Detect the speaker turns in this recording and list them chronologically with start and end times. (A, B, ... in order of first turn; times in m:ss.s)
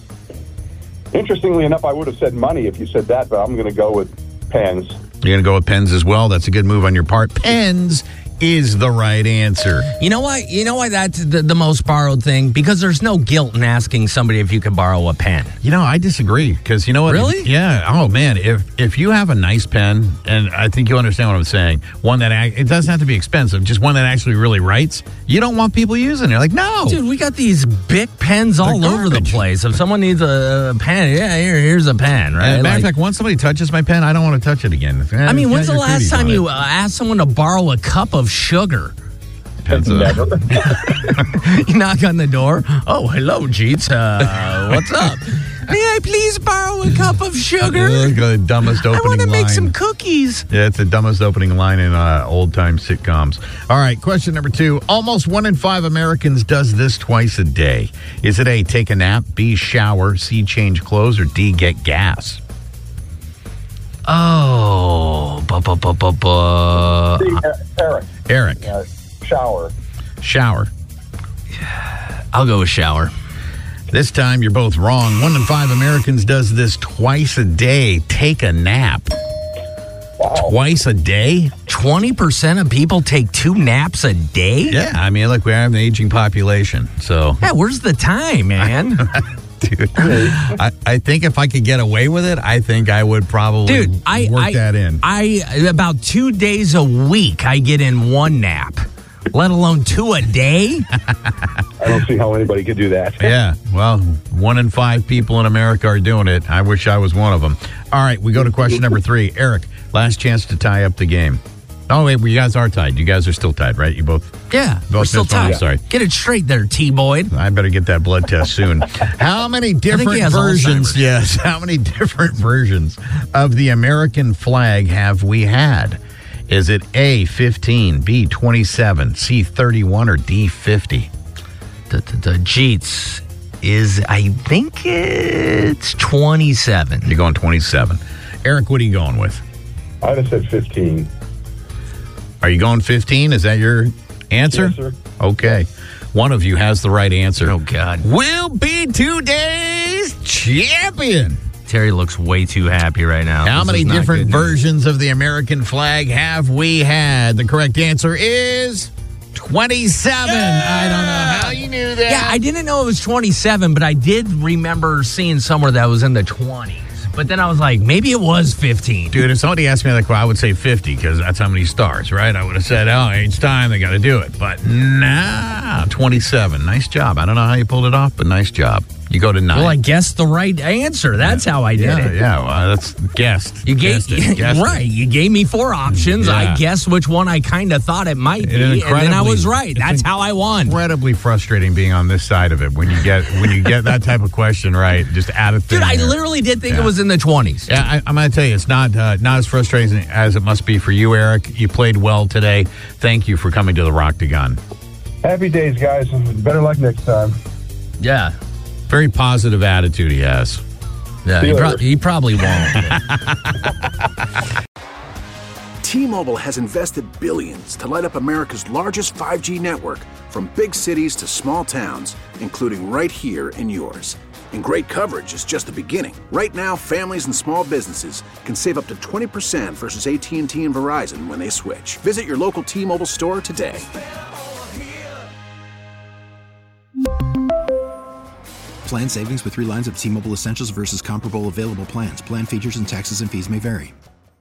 0:01.1-0:05.0 A
0:05.2-0:09.9 B
0:10.0-0:15.5 C
0:15.6-0:27.0 B
0:17.0-0:17.5 C
0:26.8-0:32.9 C
0:28.6-0:29.4 B
0:32.4-0:36.4 B
0:35.2-0:38.9 C
0:39.6-0:41.2 B
0:39.7-0:40.4 A
0:40.6-0:50.4 C
0:47.6-0:49.7 B
0:50.5-1:02.4 B
1:04.1-1:07.3 C
1:07.2-1:08.1 A
1:08.3-1:08.6 B
1:08.6-1:09.7 A
1:10.2-1:10.7 B
1:12.3-1:13.1 C
1:13.9-1:19.1 B
1:20.2-1:20.5 A
1:20.3-1:21.5 B
1:21.7-1:24.8 C
1:24.7-1:27.4 B
1:27.4-1:29.0 C
1:29.0-1:35.0 B
1:30.0-1:30.3 A
1:33.6-1:40.9 C
1:41.8-1:43.3 A
1:43.2-1:54.2 B
1:54.5-1:57.3 C
1:54.9-1:55.8 B
1:57.3-2:11.1 B
1:59.9-2:01.0 C
2:11.9-2:17.1 C
2:17.0-2:19.4 B
2:20.0-2:21.1 A
2:22.4-2:31.4 B
2:24.5-2:25.0 A
2:27.4-2:28.0 C
2:31.7-2:34.6 C
2:33.4-2:42.4 B
2:40.2-2:49.2 C
2:49.1-2:59.8 B
2:59.5-3:02.2 C
3:01.2-3:04.8 B
3:03.6-3:10.8 C
3:05.9-3:06.6 B
3:08.4-3:10.1 B
3:10.6-3:16.2 B
3:15.7-3:17.7 C
3:17.7-3:24.6 B
3:25.2-3:27.4 A
3:28.0-3:28.3 C
3:28.9-3:30.6 B
3:31.2-3:33.0 C
3:31.4-3:31.8 A
3:32.8-3:33.7 B
3:35.8-3:53.9 D
3:59.2-4:03.9 E